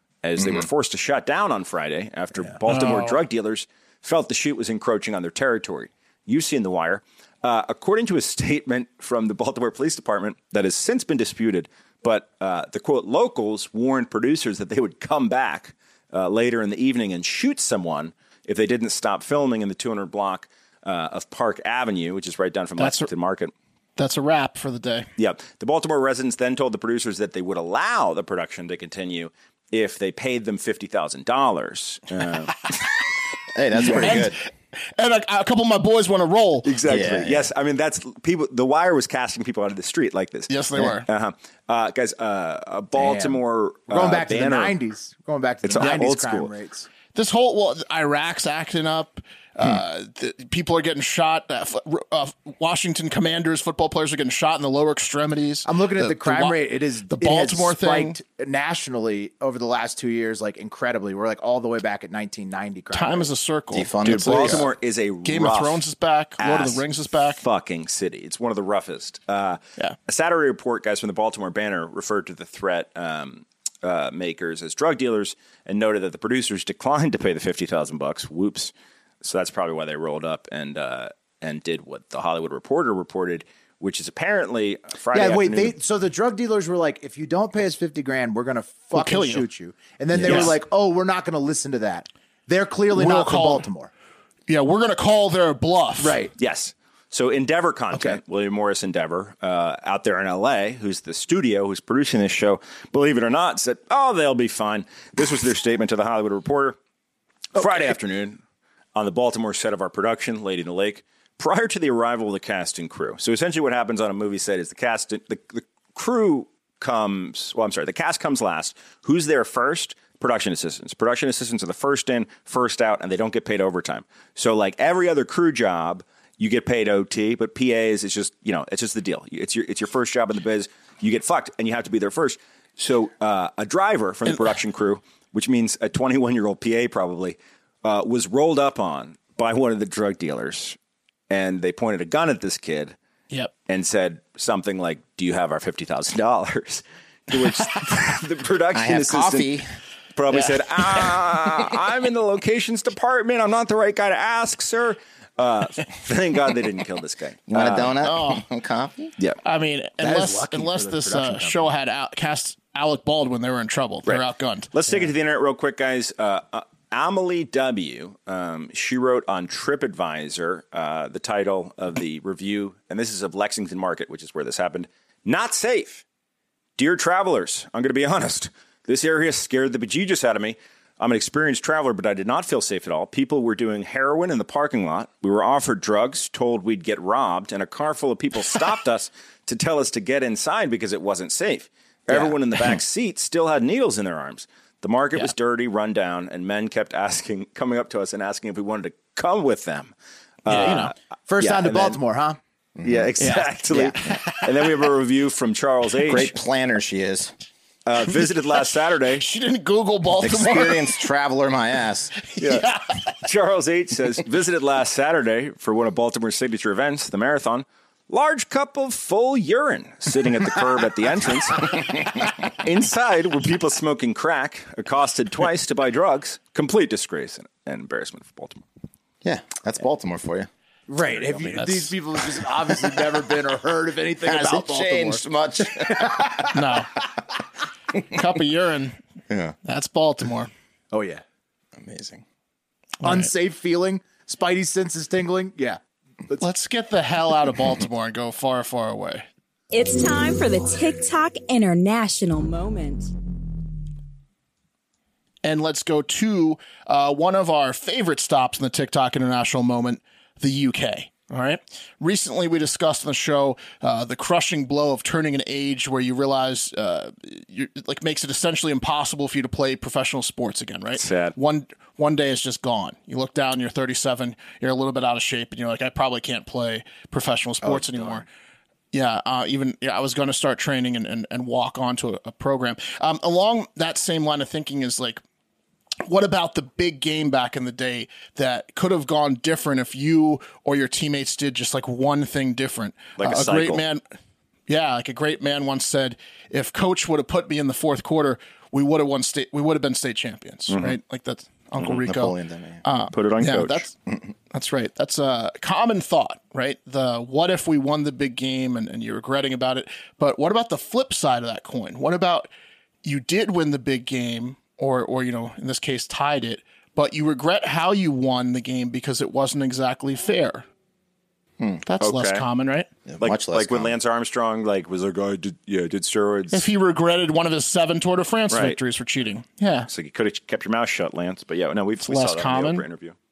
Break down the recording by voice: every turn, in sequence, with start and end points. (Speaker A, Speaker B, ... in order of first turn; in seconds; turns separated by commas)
Speaker A: 0.2-23.5, Speaker B: 0.4-0.6, Speaker C: 2.7-3.2, Speaker C: 22.8-23.1, Speaker C: 24.0-25.1, Speaker A: 25.2-32.7, Speaker B: 33.5-34.4, Speaker A: 33.8-34.2, Speaker C: 33.8-36.7, Speaker A: 36.6-44.8, Speaker B: 36.8-37.5, Speaker C: 40.5-41.1, Speaker D: 43.0-46.9, Speaker A: 45.6-46.5, Speaker C: 47.1-56.5, Speaker D: 55.6-63.3, Speaker C: 57.1-58.2, Speaker C: 62.9-64.7, Speaker B: 63.7-64.7, Speaker A: 64.0-65.8, Speaker C: 65.2-67.4, Speaker A: 66.4-78.7, Speaker A: 79.2-85.8, Speaker D: 85.1-93.9, Speaker C: 88.9-89.5, Speaker A: 90.1-90.5, Speaker C: 90.2-90.5, Speaker C: 92.9-93.7, Speaker C: 94.5-96.2, Speaker D: 96.0-96.3, Speaker A: 96.4-106.8, Speaker D: 97.9-98.2, Speaker A: 107.5-108.4, Speaker D: 107.5-108.0, Speaker A: 108.9-140.8, Speaker C: 134.2-134.5, Speaker A: 141.3-142.9, Speaker A: 143.7-149.6, Speaker B: 148.7-149.7, Speaker A: 150.2-157.9, Speaker C: 150.3-150.6, Speaker B: 157.5-159.1, Speaker C: 158.0-158.4, Speaker C: 159.4-164.7, Speaker D: 160.0-161.7, Speaker A: 164.7-176.0, Speaker A: 176.8-199.9, Speaker A: 200.4-202.0, Speaker C: 200.5-200.9, Speaker D: 201.3-202.4, Speaker B: 202.8-203.1, Speaker A: 202.8-206.3, Speaker C: 203.2-203.5, Speaker B: 206.1-207.3, Speaker A: 207.9-209.2, Speaker C: 209.2-210.9, Speaker B: 210.2-212.1, Speaker C: 212.3-212.8, Speaker A: 212.4-212.7, Speaker A: 213.2-221.9, Speaker A: 222.6-228.6, Speaker B: 229.2-230.5, Speaker D: 230.9-235.2, Speaker C: 231.3-231.9, Speaker B: 234.2-236.3, Speaker D: 235.8-236.5, Speaker C: 236.5-236.9, Speaker C: 238.1-239.0, Speaker B: 239.3-239.6, Speaker C: 239.6-240.5, Speaker D: 240.9-241.2, Speaker B: 241.8-242.2, Speaker C: 243.0-243.3, Speaker D: 243.0-246.4, Speaker C: 246.4-249.2, Speaker E: 249.7-253.1, Speaker C: 255.4-278.2, Speaker A: 270.9-271.3, Speaker D: 277.6-278.2, Speaker C: 278.9-285.2, Speaker C: 286.0-294.0, Speaker A: 293.2-293.8, Speaker C: 294.7-303.9, Speaker A: 300.7-301.0, Speaker B: 302.0-302.8, Speaker A: 303.1-303.9, Speaker C: 304.5-312.5, Speaker C: 313.0-320.6, Speaker C: 321.8-322.9, Speaker A: 322.0-322.4, Speaker B: 323.1-323.9, Speaker A: 323.2-326.6, Speaker C: 326.5-329.9, Speaker A: 328.5-328.8, Speaker A: 329.9-333.1, Speaker C: 332.0-332.8